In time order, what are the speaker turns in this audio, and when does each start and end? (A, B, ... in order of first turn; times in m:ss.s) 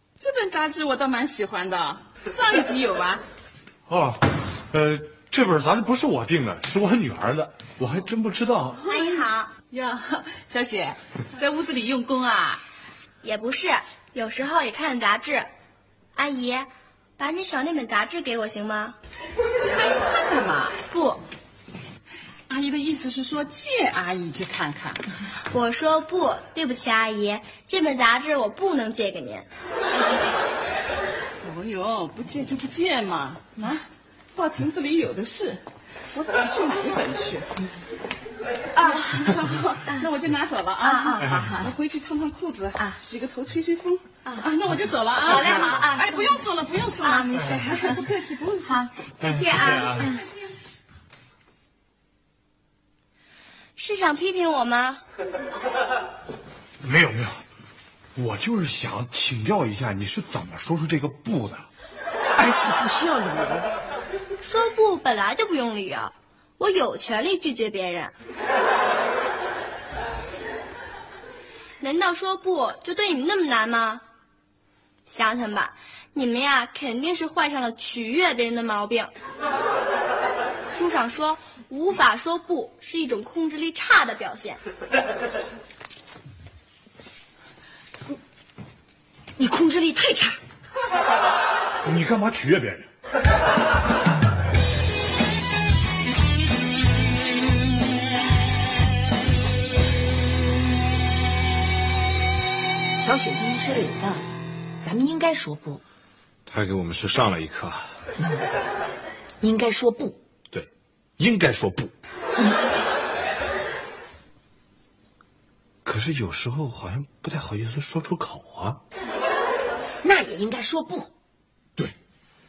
0:00.2-0:03.2 A
0:03.9-0:08.8 B
0:08.9-0:09.5 C
0:08.9-0:12.6 A
0:13.2-0:15.5 C
0:16.1-0:19.0 C
0:19.6-0:20.8 A
0:20.9-0:21.2 C
0:22.5-0:25.0 A
0:25.5-0:29.5 C
0:31.4-0:35.6 A
0:36.1-0:37.5 A
0:38.8-0:48.8 A
0:40.9-0:41.4 C
0:45.2-0:46.1 C
0:47.0-0:47.8 C
0:48.6-0:50.1 C
0:49.2-0:50.1 B
0:53.8-0:55.0 C
0:56.8-0:57.4 B
0:58.2-1:01.7 B
1:02.4-1:03.7 D
1:04.4-1:08.1 C
1:11.8-1:14.0 C
1:15.1-1:19.1 C
1:20.7-1:24.6 C
1:29.4-1:30.4 D
1:31.8-1:32.9 B
1:43.0-1:45.8 D
1:46.4-1:47.9 B
1:48.2-1:48.4 D
1:49.4-1:50.2 D
1:50.5-1:51.9 B
1:55.8-1:58.8 B
2:00.0-2:01.1 D